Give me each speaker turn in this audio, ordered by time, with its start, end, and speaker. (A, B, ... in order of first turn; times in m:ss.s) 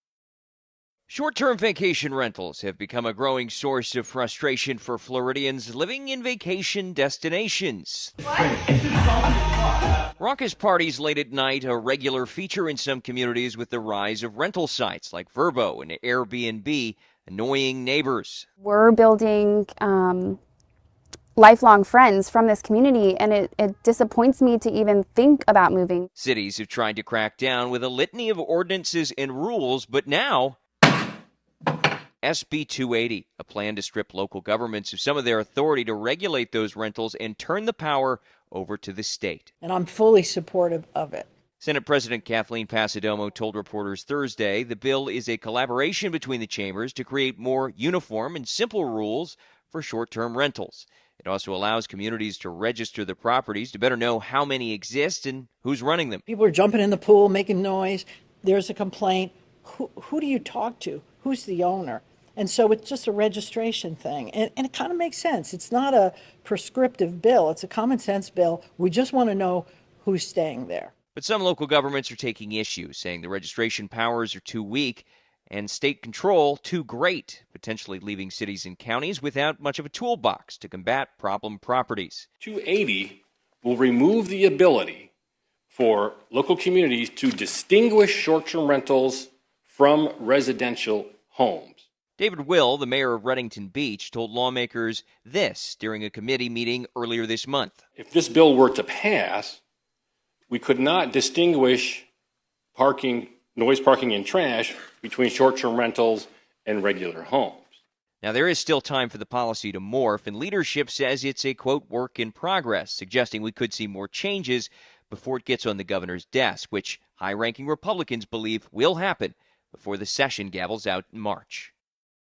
0:01.1-0:08.1 A
0:10.2-0:18.5 A
0:18.6-0:20.4 B
0:21.4-0:26.1 B
0:26.2-0:30.6 A
0:32.2-0:39.5 A
0:39.6-0:41.3 C
0:41.6-0:56.2 A
0:56.3-1:10.9 C
1:11.2-1:22.3 A
1:22.4-1:25.1 D
1:25.7-1:31.8 D
1:32.2-1:37.8 A
1:38.0-1:39.6 D
1:40.5-1:42.1 D
1:42.8-1:47.7 D
1:48.2-2:01.7 A